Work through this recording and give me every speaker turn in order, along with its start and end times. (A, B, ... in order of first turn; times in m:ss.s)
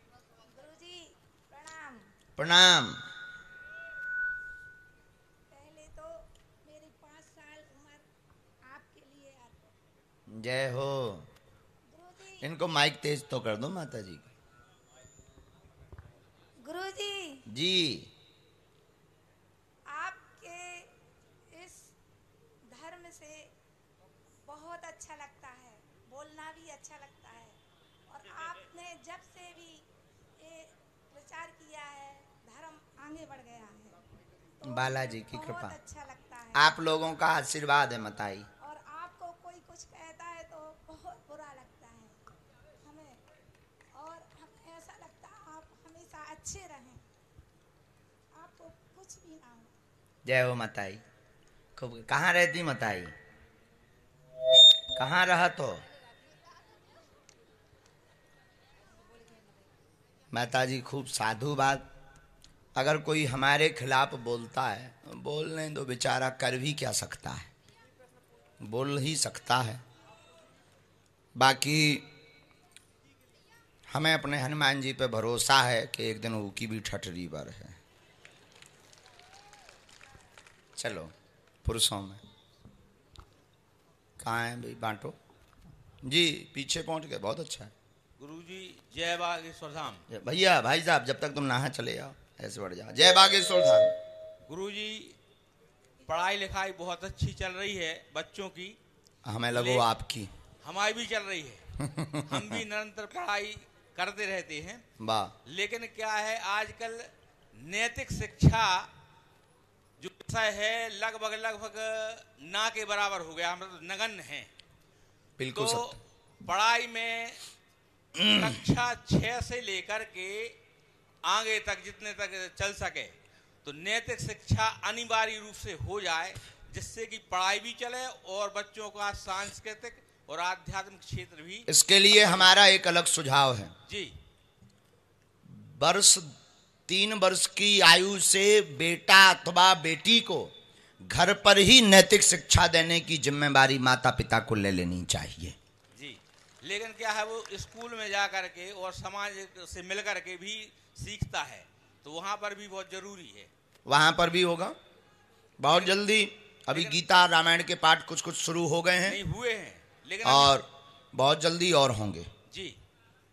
0:00.4-0:02.1 A
0:02.4-0:03.0 B
0:05.5-0:08.1 A
0:08.6-0:09.7 A
0:10.3-0:11.3 B
0:11.9-0:12.5 A
0:12.4-0:14.3 B
0:16.6-0:17.5 A
0:17.5-0:18.1 B
0:19.9-0:20.9 A
0:21.5-0:22.0 A
0:22.7-0:23.5 A
0:24.5-0:34.0 A
0:34.6-0:36.7 A
0:34.6-0:35.8 B
0:36.6-0:38.5 B
0:38.6-0:42.2 A
0:42.8-0:43.2 A
0:43.9-0:47.0 A
0:48.4-0:49.8 A
0:50.2-0:51.0 B
0:51.8-0:53.1 B
0:55.0-0:55.8 B
1:00.3-1:01.9 B
1:02.8-1:07.5 B
1:08.6-1:09.8 B
1:11.4-1:12.1 B
1:13.9-1:17.8 B
1:20.8-1:21.1 B
1:21.6-1:22.2 B
1:24.2-1:25.2 B
1:26.0-1:27.7 B
1:28.2-1:30.0 C
1:30.1-1:33.9 B
1:34.5-1:35.2 C
1:36.0-1:38.8 C
1:39.2-1:40.3 B
1:39.5-1:39.9 C
1:40.6-1:41.6 C
1:41.8-1:42.6 B
1:42.3-1:44.8 C
1:45.0-1:45.3 B
1:45.4-1:48.9 C
1:50.0-1:54.5 C
1:55.4-1:56.0 B
1:55.5-1:57.4 C
1:58.2-1:58.6 B
1:58.3-2:00.6 C
2:01.2-2:12.6 C
2:11.7-2:13.7 B
2:13.9-2:14.1 C
2:15.5-2:16.3 B
2:16.9-2:20.5 B
2:21.0-2:25.6 B
2:26.0-2:33.5 C
2:33.9-2:34.8 B
2:35.6-2:39.2 B
2:35.7-2:36.0 C
2:36.7-2:37.0 C
2:39.0-2:40.6 C
2:40.2-2:42.3 B
2:42.5-2:42.8 C